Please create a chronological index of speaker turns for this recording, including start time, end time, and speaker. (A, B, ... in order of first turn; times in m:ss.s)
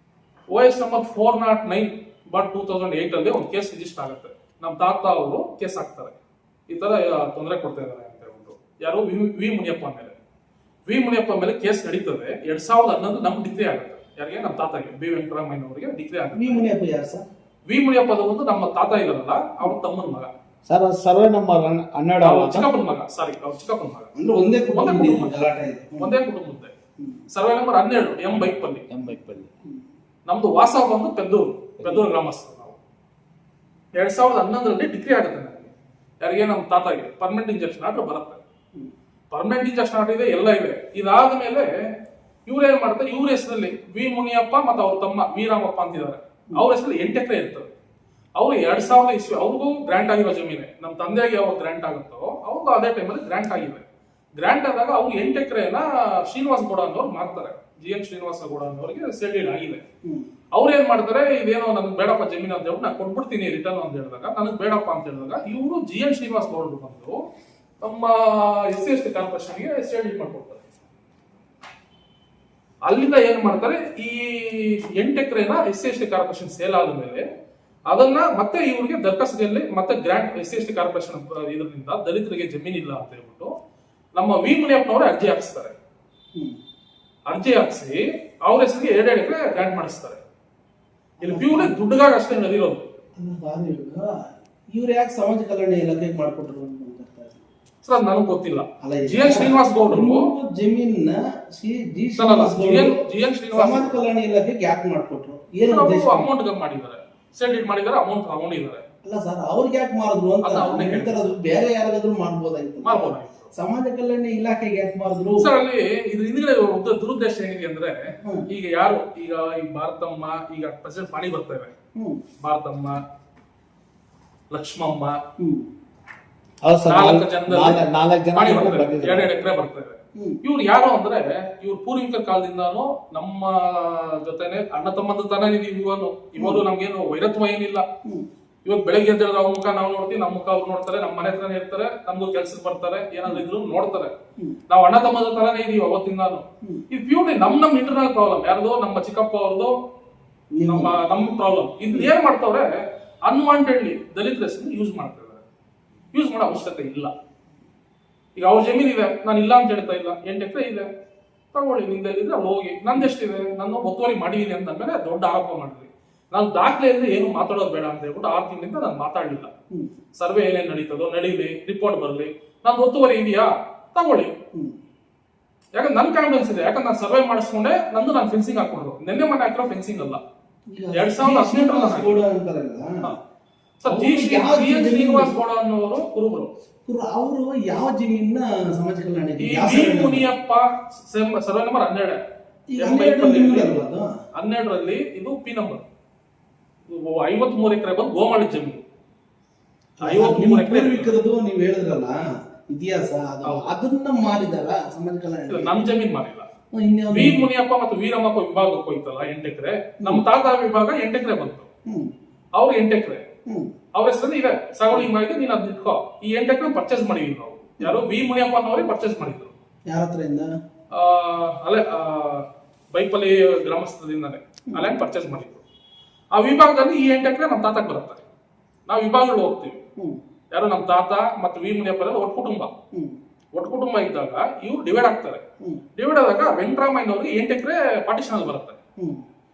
0:00.5-0:06.2 A
0:06.7-0:10.2 A
0:10.9-0:16.6 A
0:16.3-0:17.2 B
0:17.7-0:20.3 A
0:20.6-0:22.7 C
0:22.2-0:24.1 A
0:24.1-0:26.2 B
0:24.7-0:25.3 A
0:26.0-0:26.7 A
0:27.3-0:28.8 A
0:28.9-0:29.5 C
0:30.3-0:32.8 A
0:34.0-0:38.4 A
0:39.3-0:41.7 A
0:42.4-0:47.7 A
0:48.4-0:53.8 A
0:54.4-0:59.8 A
1:00.5-1:07.2 A
1:07.8-1:10.6 A
1:12.8-1:17.2 A
1:17.9-1:23.5 A
1:24.2-1:25.8 A
1:27.3-1:30.2 A
1:31.2-1:31.8 B
1:31.2-1:32.8 A
1:33.2-1:37.4 B
1:37.8-1:40.3 A
1:38.8-1:43.0 B
1:42.2-1:44.0 A
1:43.5-1:46.3 B
1:45.7-1:48.8 A
1:49.0-1:55.5 B
1:50.4-1:51.2 A
1:52.8-1:53.5 A
1:55.4-2:01.7 A
2:01.9-2:02.2 B
2:02.4-2:03.0 A
2:04.5-2:05.2 A
2:05.4-2:05.7 B
2:06.6-2:09.3 C
2:06.8-2:17.8 A
2:16.4-2:16.6 B
2:18.6-2:24.1 A
2:24.7-2:29.7 A
2:30.5-2:31.0 B
2:30.6-2:32.6 A
2:33.2-2:35.4 A
2:36.1-2:37.1 A
2:38.4-2:40.9 A
2:41.5-2:49.5 A
2:50.1-2:54.3 A
2:55.8-3:00.2 A
3:00.7-3:02.9 B
3:00.9-3:02.2 A
3:03.8-3:06.5 A
3:03.8-3:05.3 B
3:06.8-3:10.3 B
3:09.4-3:12.2 A
3:12.7-3:14.1 B
3:12.8-3:13.8 A
3:14.3-3:15.8 A
3:16.9-3:18.8 A
3:20.0-3:21.2 A
3:20.0-3:25.8 B
3:23.4-3:23.7 A
3:25.5-3:26.5 A
3:26.7-3:27.5 B
3:27.1-3:31.7 A
3:31.8-3:32.1 B
3:32.6-3:33.2 A
3:33.4-3:33.7 B
3:33.9-3:39.5 A
3:39.9-3:40.5 B
3:40.9-3:45.6 A
3:46.3-3:48.2 A
3:48.9-3:49.8 A
3:50.5-3:52.7 A
3:53.5-3:55.4 A
3:56.0-3:58.8 A
3:59.0-3:59.2 B